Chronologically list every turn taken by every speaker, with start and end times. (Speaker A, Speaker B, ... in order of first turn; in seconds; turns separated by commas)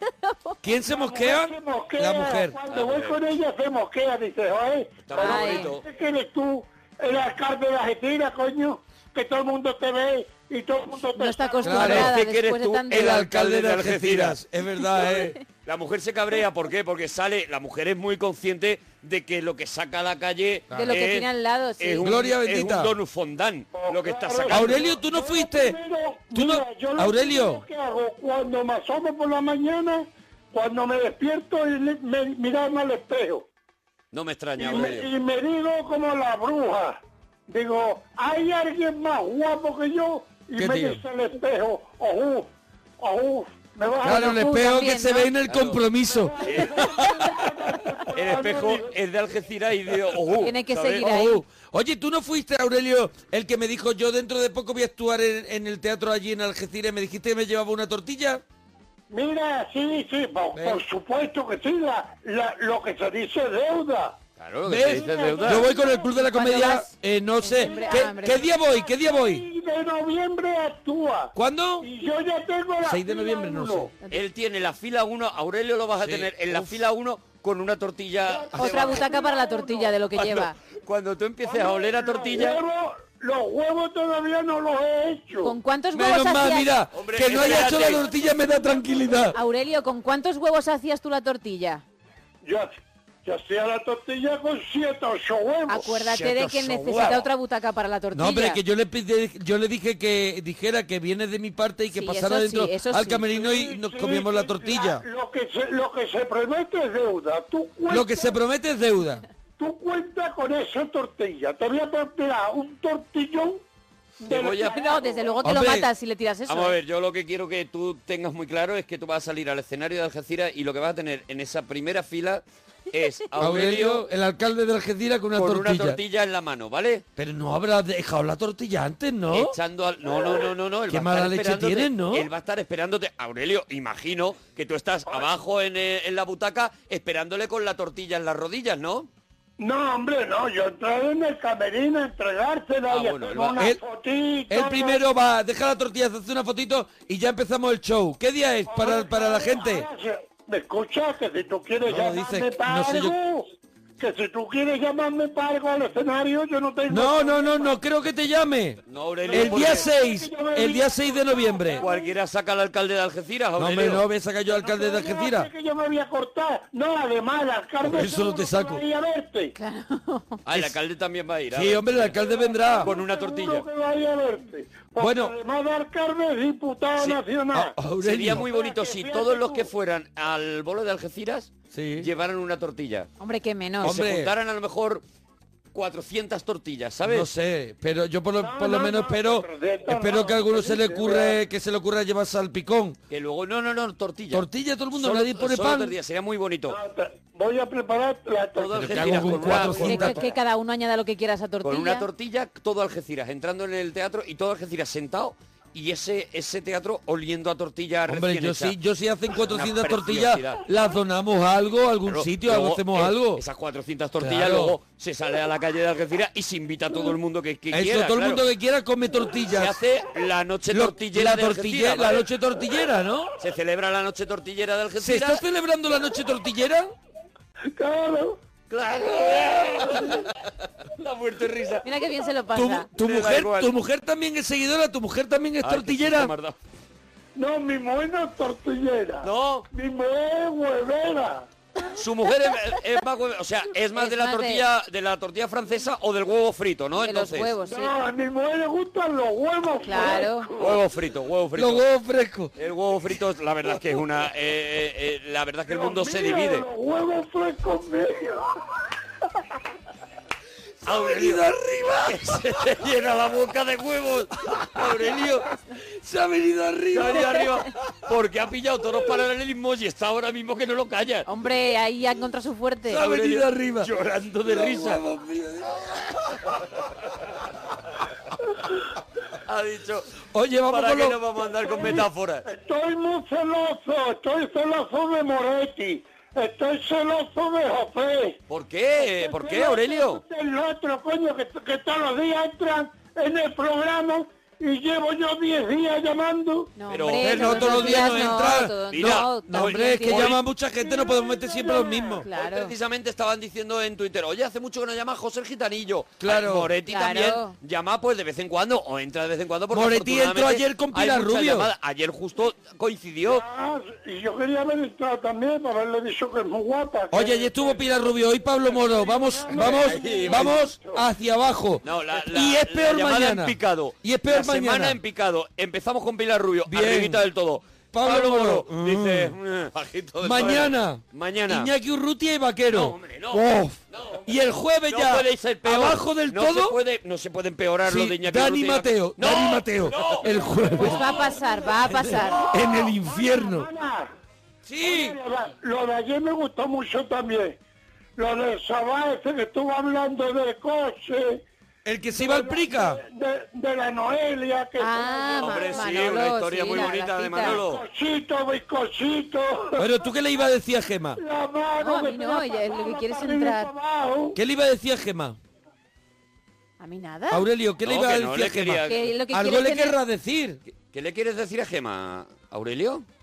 Speaker A: 0.2-0.5, Speaker B: 0.6-2.6, Speaker C: 0.8-12.0, Speaker D: 2.7-3.2, Speaker D: 5.0-5.8, Speaker A: 5.2-5.7, Speaker A: 11.1-13.2, Speaker B: 11.6-12.1, Speaker D: 11.8-14.4, Speaker B: 12.9-15.4, Speaker A: 15.0-15.3, Speaker D: 15.6-21.3, Speaker A: 20.8-22.1, Speaker D: 21.8-24.9, Speaker B: 22.0-22.9, Speaker C: 23.7-33.5, Speaker B: 24.5-25.8, Speaker B: 26.3-27.6, Speaker D: 34.1-35.1, Speaker C: 34.6-44.6, Speaker B: 40.6-41.0, Speaker B: 44.0-46.7, Speaker A: 44.1-45.3, Speaker D: 45.5-45.8, Speaker C: 46.0-49.0, Speaker D: 46.4-46.8, Speaker D: 48.1-51.1, Speaker A: 50.4-51.4, Speaker B: 51.0-58.4, Speaker C: 59.1-64.2, Speaker B: 60.5-60.8, Speaker D: 64.4-65.7, Speaker B: 64.7-69.5, Speaker C: 64.8-66.6, Speaker A: 66.2-66.9, Speaker A: 67.4-68.4, Speaker C: 67.6-73.9, Speaker B: 71.4-71.9, Speaker B: 72.8-73.9, Speaker D: 74.1-79.0, Speaker B: 76.0-76.8, Speaker C: 78.3-80.0, Speaker A: 78.6-80.6, Speaker D: 80.8-82.6, Speaker C: 81.4-85.6, Speaker A: 85.4-86.8, Speaker B: 85.9-89.4, Speaker D: 86.9-88.1, Speaker C: 88.2-89.2, Speaker A: 89.3-91.8, Speaker C: 92.4-96.1, Speaker A: 95.7-98.6, Speaker B: 96.0-97.3, Speaker B: 98.1-105.0, Speaker A: 101.9-103.2, Speaker C: 103.2-108.4, Speaker B: 107.9-109.2, Speaker C: 109.6-113.6, Speaker C: 114.2-115.5, Speaker D: 114.3-114.8, Speaker A: 114.7-116.8, Speaker B: 115.4-115.9, Speaker D: 116.5-124.0, Speaker B: 123.4-126.0, Speaker D: 125.3-127.0, Speaker B: 127.2-129.6, Speaker D: 129.3-139.1, Speaker B: 130.9-132.3, Speaker C: 139.6-145.1, Speaker D: 142.9-143.6, Speaker B: 144.5-149.9, Speaker C: 148.7-157.8, Speaker B: 151.9-153.2, Speaker B: 156.9-161.9, Speaker D: 158.9-159.9, Speaker C: 159.3-162.2, Speaker D: 161.8-164.0, Speaker B: 163.6-165.5, Speaker C: 164.5-169.5, Speaker B: 167.8-168.8, Speaker A: 169.6-170.4, Speaker D: 170.5-172.2, Speaker B: 171.5-172.9, Speaker C: 172.1-177.8, Speaker D: 172.8-173.7, Speaker B: 175.0-175.4, Speaker B: 177.0-178.5, Speaker D: 178.0-183.1, Speaker C: 178.3-179.7, Speaker B: 181.7-182.1, Speaker A: 183.2-184.0, Speaker D: 183.8-185.0, Speaker B: 183.8-184.3, Speaker D: 185.7-187.3, Speaker B: 187.1-193.0, Speaker C: 188.4-191.4, Speaker D: 193.1-196.8, Speaker B: 194.3-195.9, Speaker C: 196.7-200.3, Speaker D: 198.6-200.2, Speaker B: 198.8-200.2, Speaker A: 199.8-202.1, Speaker D: 201.6-208.8, Speaker B: 208.1-213.4, Speaker D: 209.4-210.7, Speaker D: 212.1-218.4, Speaker B: 214.2-214.8, Speaker B: 217.7-219.8, Speaker D: 219.5-222.2, Speaker B: 220.7-223.3, Speaker D: 223.4-225.4, Speaker B: 225.0-226.9, Speaker C: 227.8-228.4, Speaker D: 228.7-230.2, Speaker C: 229.3-230.2, Speaker D: 231.0-231.8, Speaker A: 231.8-232.9, Speaker B: 232.5-236.3, Speaker D: 233.0-233.7, Speaker D: 235.6-236.6, Speaker C: 237.4-241.5, Speaker D: 239.2-239.7, Speaker D: 241.9-247.5, Speaker A: 243.9-244.7, Speaker A: 247.0-247.9, Speaker C: 247.6-250.8, Speaker A: 249.8-250.5, Speaker D: 250.6-251.8, Speaker B: 251.6-252.5, Speaker D: 252.6-256.6, Speaker C: 255.7-258.5, Speaker D: 260.9-261.4, Speaker B: 260.9-262.4, Speaker D: 262.1-265.4, Speaker B: 264.5-265.2, Speaker B: 266.0-267.6, Speaker D: 266.9-271.3, Speaker A: 271.3-273.0, Speaker B: 272.9-273.9, Speaker D: 272.9-275.0, Speaker B: 274.4-276.4, Speaker D: 279.5-280.1, Speaker B: 280.3-281.2, Speaker D: 280.7-282.5, Speaker C: 281.6-288.4, Speaker D: 288.5-290.2, Speaker C: 289.0-296.7, Speaker A: 296.8-300.4, Speaker D: 296.9-298.3, Speaker B: 297.2-302.2, Speaker D: 298.9-300.4, Speaker C: 300.6-302.3, Speaker A: 302.2-302.7, Speaker D: 302.3-313.4, Speaker B: 306.2-306.8, Speaker A: 306.9-307.6, Speaker B: 309.7-311.7, Speaker C: 313.2-321.1, Speaker B: 317.1-325.0, Speaker D: 319.7-320.6, Speaker D: 321.8-331.7, Speaker B: 326.7-327.3, Speaker B: 327.9-329.4, Speaker B: 330.2-336.8, Speaker D: 332.7-334.3, Speaker D: 334.9-341.1, Speaker B: 337.9-341.2, Speaker C: 340.4-341.6, Speaker A: 340.8-342.5, Speaker B: 341.8-343.7, Speaker C: 342.2-344.1, Speaker B: 344.7-345.2, Speaker C: 344.8-347.6, Speaker C: 348.2-351.4, Speaker B: 351.9-353.0, Speaker C: 352.1-355.9, Speaker A: 354.8-357.6, Speaker D: 355.4-357.8, Speaker C: 357.4-359.9, Speaker B: 359.8-361.2, Speaker C: 361.2-364.4, Speaker A: 361.8-363.7, Speaker B: 364.4-365.4, Speaker A: 366.8-367.5, Speaker B: 367.3-370.6, Speaker D: 367.8-369.1, Speaker A: 368.8-370.0, Speaker D: 370.7-373.1